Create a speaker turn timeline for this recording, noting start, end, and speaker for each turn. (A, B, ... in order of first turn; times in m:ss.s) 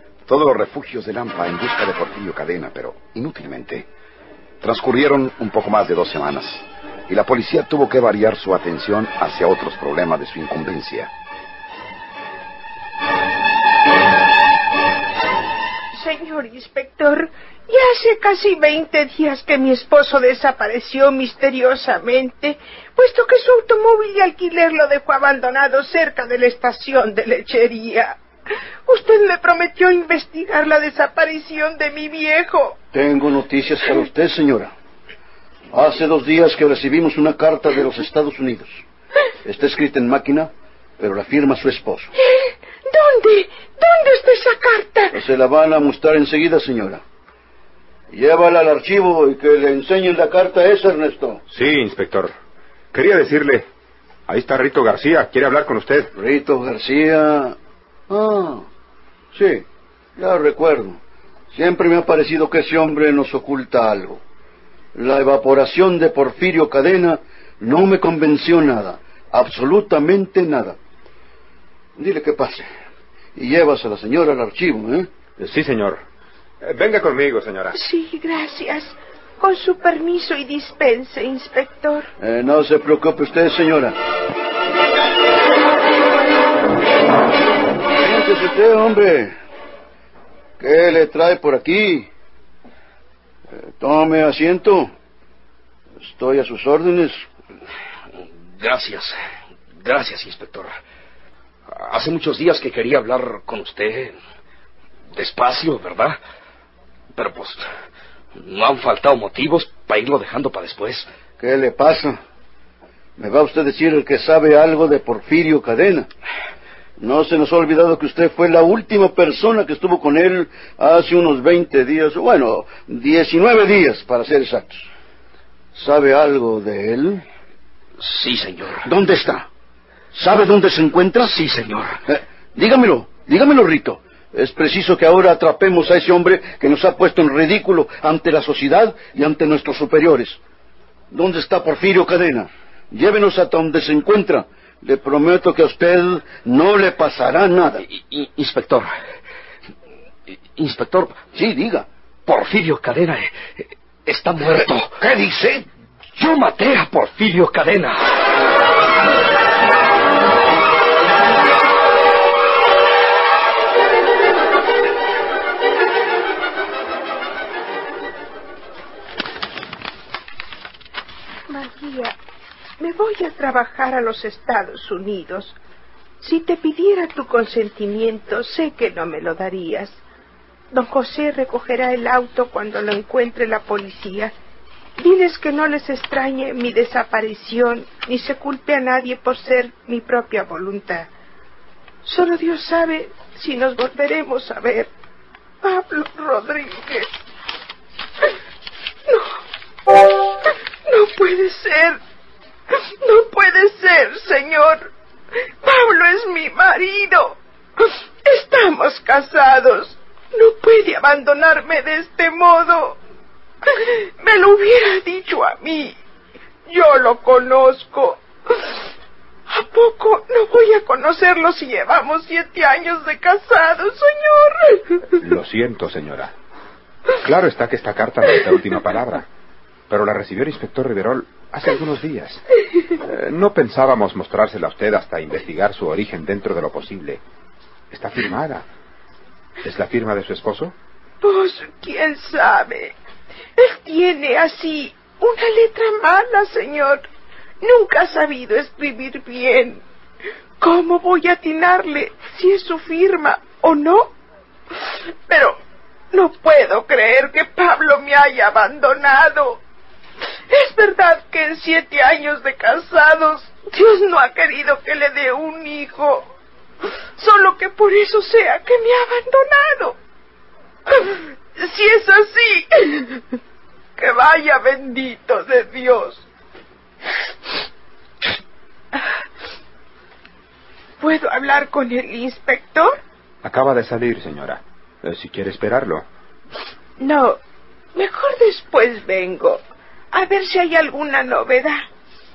0:00.3-0:03.9 A
0:04.6-0:11.1 A
0:16.0-0:28.1 B
0:28.9-0:32.7 B
0:32.9-0:34.7 C
0:35.7-0:38.8 C
0:39.4-0:42.1 C
0:42.9-0:45.1 B
0:45.2-0:47.0 C
0:48.1-0:51.4 C
0:51.5-0:52.3 D
0:52.9-0:53.7 D
0:54.3-0:56.1 D
0:56.1-0:57.6 C
0:58.1-0:58.7 C
0:59.3-0:59.6 C
1:00.2-1:01.0 C
1:01.5-1:04.2 C
1:05.0-1:10.8 C
1:12.0-1:12.7 C
1:13.4-1:15.1 C
1:15.4-1:16.0 D
1:16.6-1:17.8 D
1:17.8-1:22.0 B
1:22.2-1:24.0 C
1:27.9-1:29.4 C
1:30.6-1:32.1 C
1:33.6-1:34.9 C
1:36.0-1:37.2 C
1:38.6-1:39.2 E
1:39.8-1:40.8 E
1:41.7-1:44.2 E
1:45.1-1:46.2 E
1:47.2-1:47.6 E
1:48.4-1:51.1 E
1:51.4-1:52.2 C
1:53.2-1:56.1 C
1:57.0-2:04.9 C
2:05.8-2:07.2 C
2:08.0-2:08.9 E
2:08.8-2:09.5 C
2:10.1-2:11.4 C
2:11.2-2:12.0 E
2:12.1-2:20.4 C
2:21.1-2:27.8 C
2:27.9-2:28.9 E
2:30.6-2:31.2 E
2:31.3-2:31.9 C
2:32.3-2:35.0 E
2:35.0-2:35.6 C
2:36.2-2:38.0 E
2:51.5-2:52.1 B
2:52.8-2:55.5 B
2:56.2-3:00.0 B
3:00.7-3:04.3 B
3:05.0-3:11.1 B
3:12.1-3:14.9 B
3:15.6-3:17.1 B
3:20.9-3:22.0 B
3:23.0-3:24.9 B
3:25.6-3:27.4 B
3:28.2-3:33.0 B
3:34.2-3:35.9 B
3:36.7-3:38.2 B
3:39.5-3:44.5 B
3:45.2-3:46.3 D
3:47.2-3:49.3 D
3:49.9-3:52.4 D
3:53.0-3:57.2 D
3:57.9-3:58.6 D
3:59.6-4:00.7 D
4:01.2-4:02.9 B
4:03.6-4:07.0 B
4:07.6-4:09.8 B
4:10.6-4:14.1 B
4:15.3-4:15.6 B
4:16.1-4:19.6 B
4:20.5-4:26.3 B
4:27.2-4:30.0 B
4:31.0-4:33.2 B
4:34.0-4:36.2 B
4:41.0-4:42.9 B
4:43.4-4:46.0 D
4:47.0-4:47.3 B
4:48.0-4:49.6 B
4:50.1-4:51.8 B